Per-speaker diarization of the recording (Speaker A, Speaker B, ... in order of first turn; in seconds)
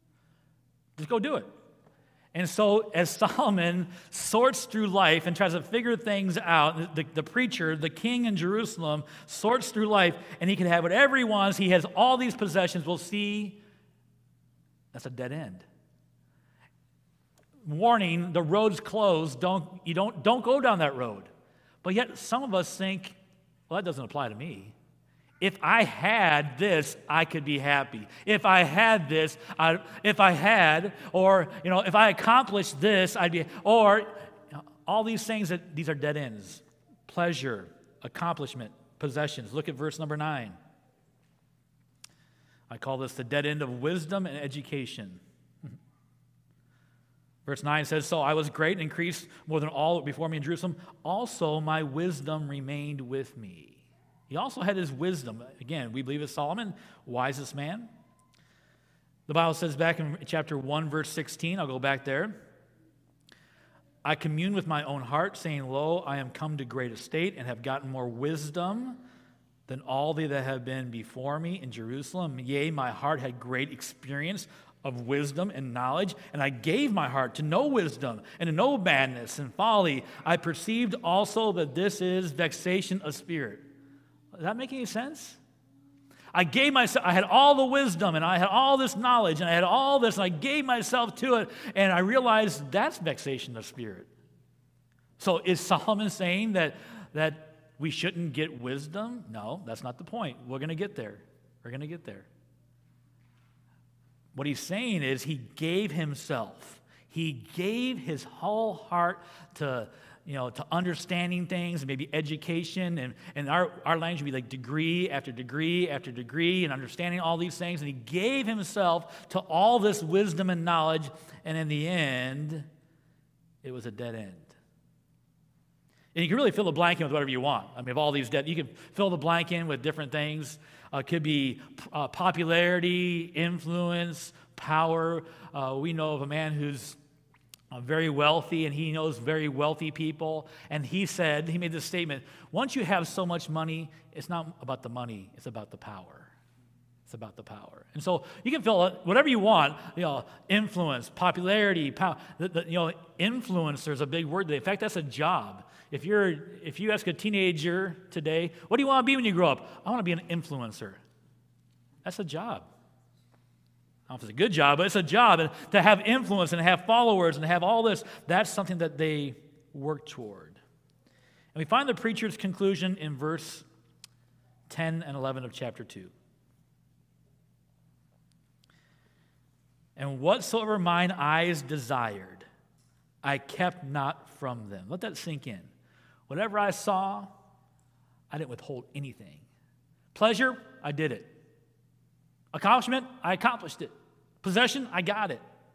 Speaker A: 0.9-1.5, 2.3-13.6, 14.9-15.6, 17.6-21.3, 21.8-23.2, 23.7-24.7, 25.4-40.6, 42.7-45.2, 47.5-57.9, 59.3-62.4, 64.0-69.0, 69.7-83.6, 84.3-85.4, 86.3-94.1, 95.2-102.3, 104.3-122.7, 123.6-124.5, 126.1-137.0, 137.7-146.3, 147.1-161.0, 162.0-162.7, 164.1-170.6, 171.5-173.6, 174.7-176.1, 179.9-182.4, 183.2-185.7, 186.3-187.3, 188.3-189.4, 190.1-191.3, 192.5-195.4